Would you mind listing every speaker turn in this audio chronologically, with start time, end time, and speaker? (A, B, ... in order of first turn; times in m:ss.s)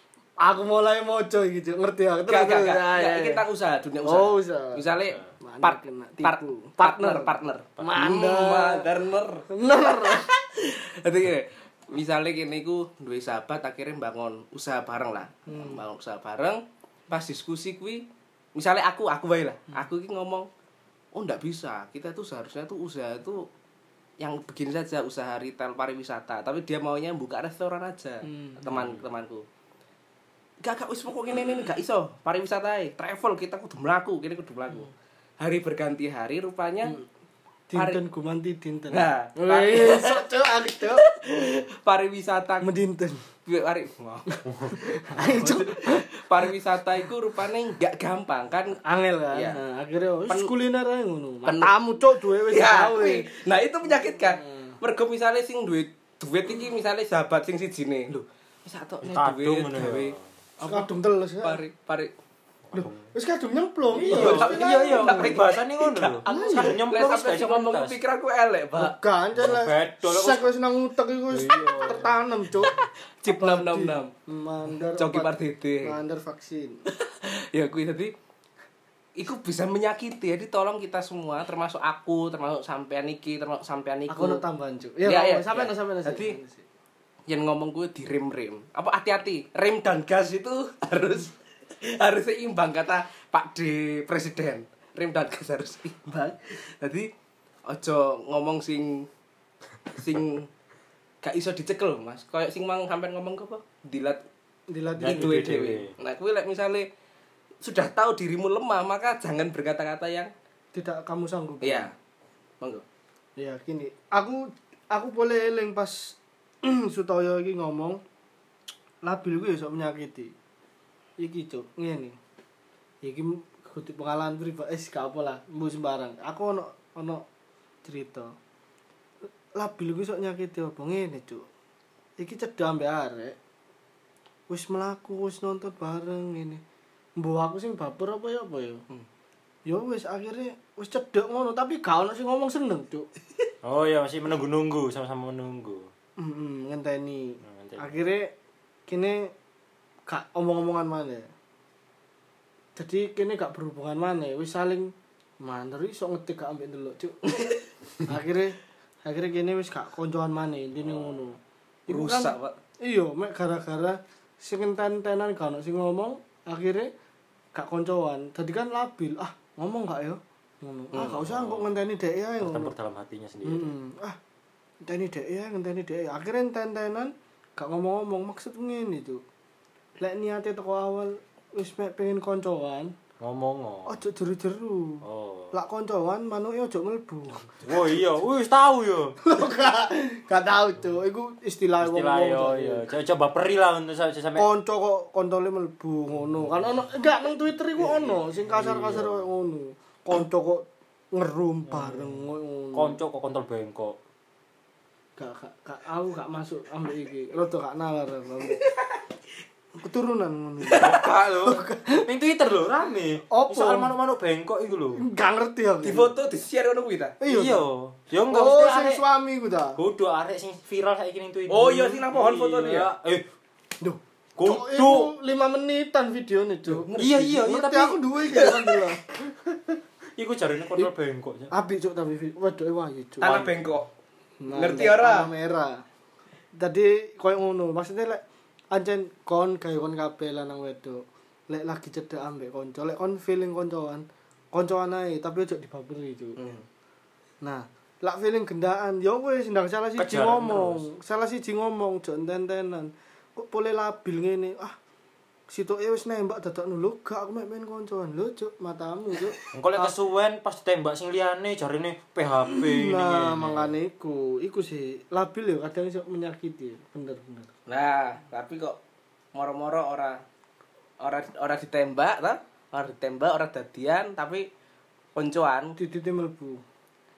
0:00.4-0:03.4 A
0:02.3-0:20.5 B
0:04.0-0:04.9 A
0:05.4-0:08.9 A
0:09.5-0:10.3 A
0:15.5-0:15.8 A
0:21.1-0:23.5 B
0:24.2-0:29.4 B
0:28.3-0:28.6 A
0:28.7-0:29.0 C
0:30.6-0:37.0 B
0:37.7-0:41.0 A
0:37.8-0:38.0 B
0:38.9-0:42.7 B
0:42.6-0:43.2 A
0:43.5-0:44.3 B
0:44.3-0:46.1 A
0:45.1-0:48.8 B
0:48.8-0:53.3 A
0:49.3-0:49.6 B
0:51.4-0:51.7 B
0:52.5-1:00.9 B
0:59.0-1:00.2 C
1:00.6-1:01.6 A
1:01.4-1:02.1 B
1:02.7-1:03.0 C
1:02.7-1:05.4 A
1:04.0-1:08.0 C
1:04.0-1:09.0 B
1:06.3-1:06.8 A
1:08.8-1:12.8 A
1:09.4-1:10.5 C
1:11.3-1:12.1 C
1:13.2-1:14.1 B
1:13.3-1:15.3 A
1:15.0-1:16.0 B
1:15.8-1:16.8 A
1:16.9-1:18.1 B
1:19.2-1:24.4 B
1:24.1-1:26.6 A
1:25.0-1:26.4 B
1:27.3-1:37.1 B
1:37.7-1:39.1 B
1:39.9-1:40.5 B
1:41.2-1:44.2 B
1:44.7-1:45.8 A
1:45.0-1:45.9 C
1:45.0-1:46.9 B
1:47.6-1:50.3 B
1:50.7-1:51.9 A
1:51.6-1:51.9 B
1:53.4-1:58.0 A
1:59.0-2:00.3 A
2:01.2-2:02.2 A
2:03.0-2:07.2 A
2:07.8-2:08.3 A
2:09.6-2:11.4 A
2:12.2-2:13.4 A
2:14.5-2:16.6 A
2:17.2-2:18.8 A
2:19.7-2:23.1 A
2:23.6-2:25.9 C
2:26.2-2:28.3 A
2:27.4-2:28.0 C
2:28.9-2:29.3 A
2:30.1-2:31.3 A
2:32.8-2:46.9 A
2:40.9-2:41.1 C
2:41.9-2:42.6 B
2:47.6-2:52.7 A
2:51.0-2:51.8 C
2:52.4-2:53.7 C
2:53.4-2:54.2 A
2:54.8-2:59.2 A
3:00.0-3:02.9 A
3:03.2-3:04.0 C
3:03.9-3:07.8 A
3:05.0-3:05.5 C
3:07.6-3:09.2 C
3:09.2-3:12.8 A
3:11.8-3:14.5 C
3:14.4-3:23.0 A
3:17.8-3:19.3 C
3:21.7-3:24.0 C
3:25.2-3:28.7 A
3:28.5-3:28.9 B
3:29.8-3:32.1 A
3:30.7-3:31.6 B
3:32.0-3:35.0 C
3:33.3-3:33.9 A
3:35.0-3:36.1 A
3:35.8-3:37.2 B
3:37.2-3:37.7 A
3:37.3-3:39.0 C
3:38.3-3:39.8 A
3:39.8-3:43.2 C
3:41.5-3:42.9 B
3:43.8-3:49.0 A
3:44.4-3:45.1 C
3:46.8-3:47.1 B
3:47.0-3:51.5 C
3:51.5-3:53.5 A
3:53.2-3:53.9 B
3:54.4-3:55.8 A
3:54.5-3:55.3 B
3:56.6-4:06.5 A
4:06.4-4:06.6 B
4:07.4-4:14.8 A
4:10.0-4:10.9 C
4:15.5-4:19.9 A
4:19.5-4:23.8 C
4:22.5-4:27.5 A
4:27.7-4:28.8 B
4:29.4-4:30.2 B
4:31.0-4:34.5 B
4:35.1-4:35.8 B
4:35.8-4:36.6 A